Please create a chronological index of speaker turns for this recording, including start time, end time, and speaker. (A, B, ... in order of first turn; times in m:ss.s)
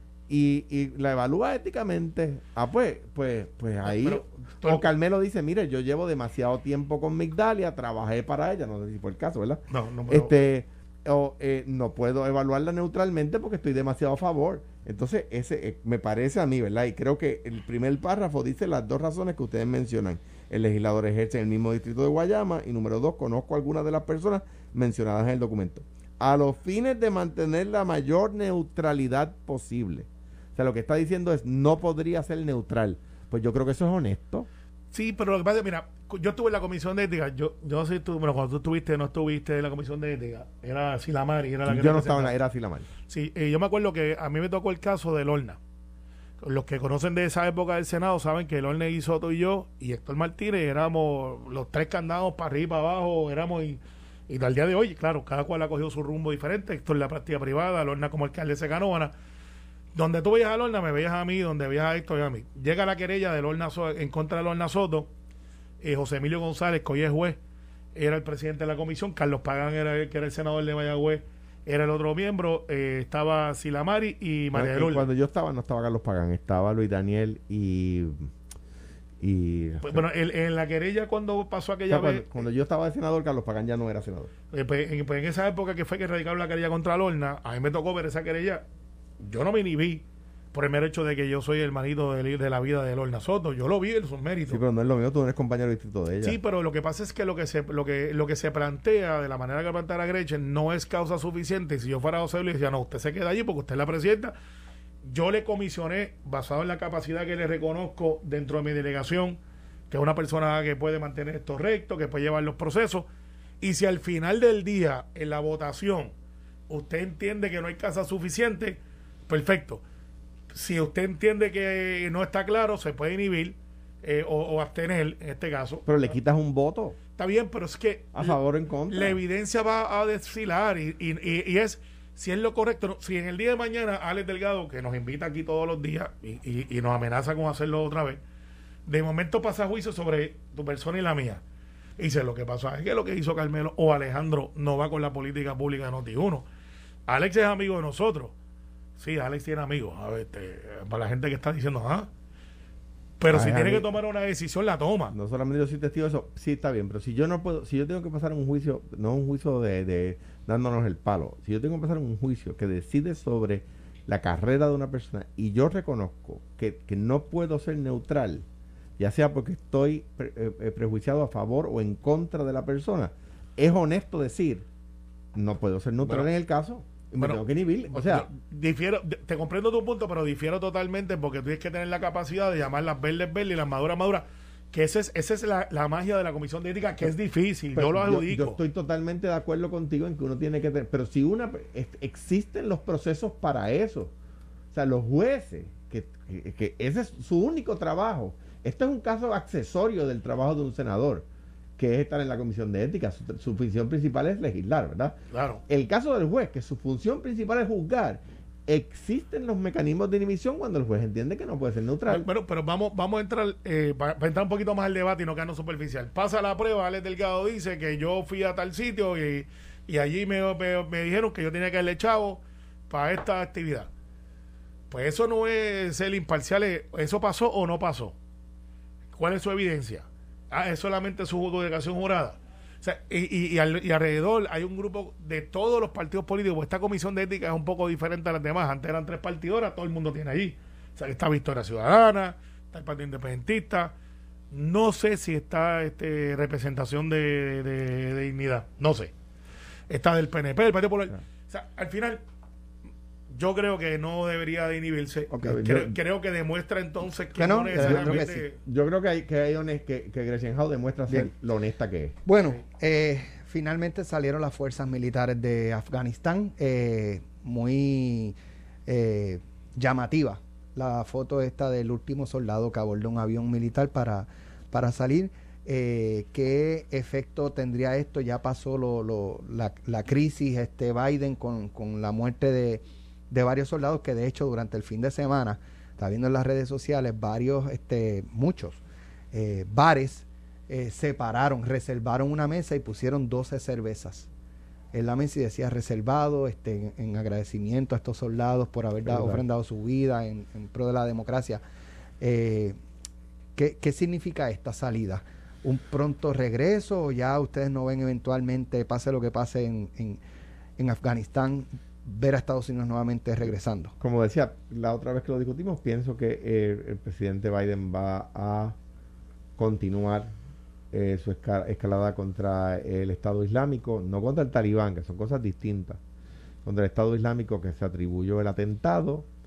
0:00.3-0:34.5 A
0:03.8-0:04.8 B
0:09.7-0:10.4 B
0:34.9-0:42.3 B
0:41.7-0:42.9 A
0:43.1-0:45.6 B
0:46.4-0:59.1 B
1:00.0-1:05.1 B
1:05.8-1:07.4 B
1:08.0-1:15.1 B
1:14.5-1:18.3 A
1:19.2-1:20.0 A
1:19.8-1:22.4 B
1:21.9-1:24.3 A
1:24.5-1:28.6 B
1:29.2-1:34.6 B
1:34.5-1:36.4 A
1:36.2-1:44.3 B
1:45.0-1:49.4 B
1:49.9-1:53.1 B
1:53.6-1:56.1 B
1:56.7-1:59.8 B
2:00.5-2:05.9 B
2:05.9-2:07.0 A
2:07.2-2:08.4 B
2:08.1-2:09.2 A
2:08.9-2:18.2 B
2:18.9-2:21.4 B
2:22.0-2:26.5 B
2:27.1-2:28.3 B
2:29.0-2:32.1 B
2:33.2-2:35.2 B
2:33.3-2:33.9 A
2:35.1-2:48.4 A
2:49.0-2:54.6 A
2:55.4-2:58.3 A
2:56.0-2:56.3 B
2:57.2-3:08.6 B
3:07.8-3:14.1 A
3:14.7-3:21.3 A
3:21.8-3:25.2 A
3:25.3-3:25.6 B
3:25.7-3:32.3 A
3:32.1-3:43.9 B
3:44.9-3:48.2 B
3:49.1-4:03.9 B
4:04.5-4:09.1 B
4:09.9-4:12.2 B
4:13.3-4:18.6 B
4:15.3-4:16.0 A
4:17.4-4:18.4 C
4:17.8-4:22.2 A
4:22.2-4:28.4 C
4:28.9-4:48.8 C
4:49.3-4:54.3 C
4:54.9-5:01.6 C
4:59.0-4:59.4 A
5:02.2-5:02.8 C
5:03.6-5:10.2 C
5:10.8-5:13.9 C
5:14.0-5:18.8 A
5:19.6-5:20.3 A
5:20.9-5:26.0 A
5:26.6-5:29.3 A